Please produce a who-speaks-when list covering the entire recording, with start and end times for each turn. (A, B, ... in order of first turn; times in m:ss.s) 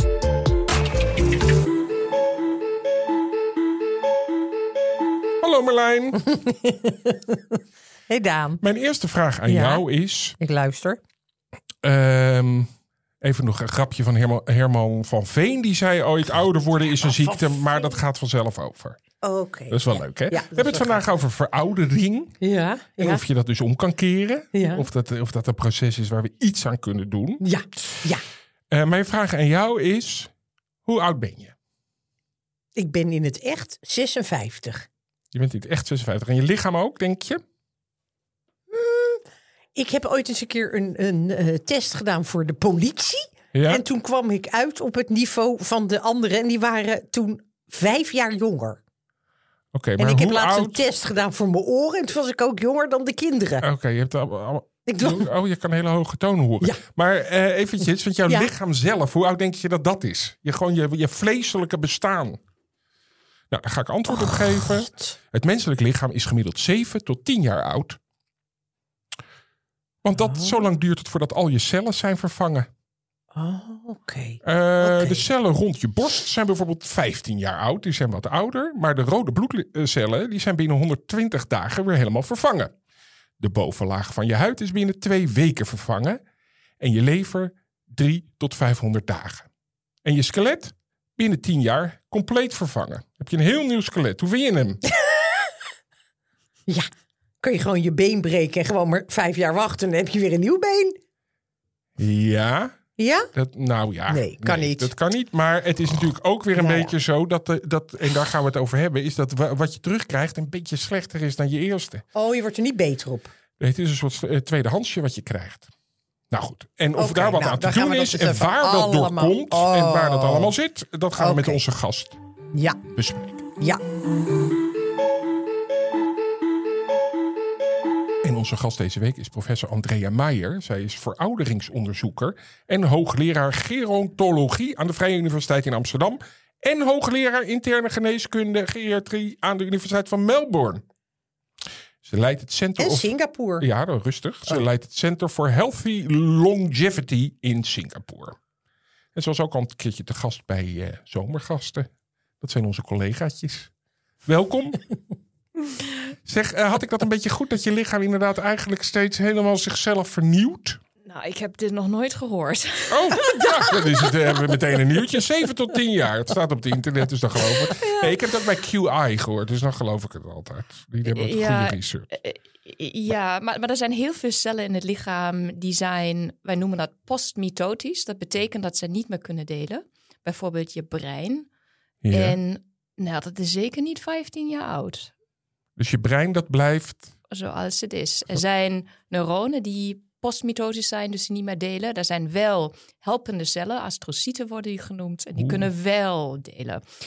0:05.4-0:06.3 A
0:06.2-0:07.6 B
0:08.1-0:08.6 B
0:08.6-0:10.4 A
0:09.5-0:09.8 B
0:10.4-0:11.0 B
0:11.8-0:19.0 A
0:16.9-0:17.9 B
0:19.2-0:21.0 B
0:19.7-0:22.4 A
0:22.4-0:23.2 B
0:23.0-0:28.0 A
0:24.5-0:24.8 B
0:27.4-0:28.2 B
0:28.7-0:30.3 A
0:30.8-0:31.5 A
0:32.8-0:34.9 B
0:35.3-0:37.4 A
0:38.7-0:48.8 B
0:43.5-0:43.8 A
0:49.7-0:50.8 A
0:50.0-0:53.6 B
0:53.6-1:02.4 A
0:54.8-0:55.3 B
1:03.5-1:08.0 A
1:04.1-1:05.1 B
1:10.0-1:12.7 A
1:10.2-1:10.6 B
1:13.3-1:15.2 B
1:14.4-1:22.7 A
1:23.4-1:26.2 A
1:26.8-1:29.5 A
1:30.0-1:34.8 A
1:34.8-1:35.6 B
1:37.4-1:41.0 B
1:42.0-1:42.8 A
1:43.0-1:43.3 B
1:43.3-1:52.0 A
1:44.1-1:44.9 B
1:46.5-1:46.9 B
1:52.1-1:53.3 B
1:53.6-1:55.7 A
1:56.3-2:02.2 A
1:57.0-2:00.5 B
2:01.2-2:01.6 B
2:02.5-2:02.8 B
2:02.9-2:03.5 A
2:08.2-2:20.8 A
2:22.0-2:28.4 A
2:22.8-2:23.6 B
2:29.1-2:31.9 A
2:32.4-2:33.7 A
2:34.2-2:34.9 A
2:36.2-2:40.8 A
2:41.0-2:43.8 C
2:42.9-2:52.1 A
2:47.8-2:48.2 C
2:51.0-3:01.5 C
3:02.0-3:02.4 A
3:02.1-3:05.1 C
3:05.8-3:07.1 A
3:07.3-3:16.8 C
3:15.3-3:15.6 A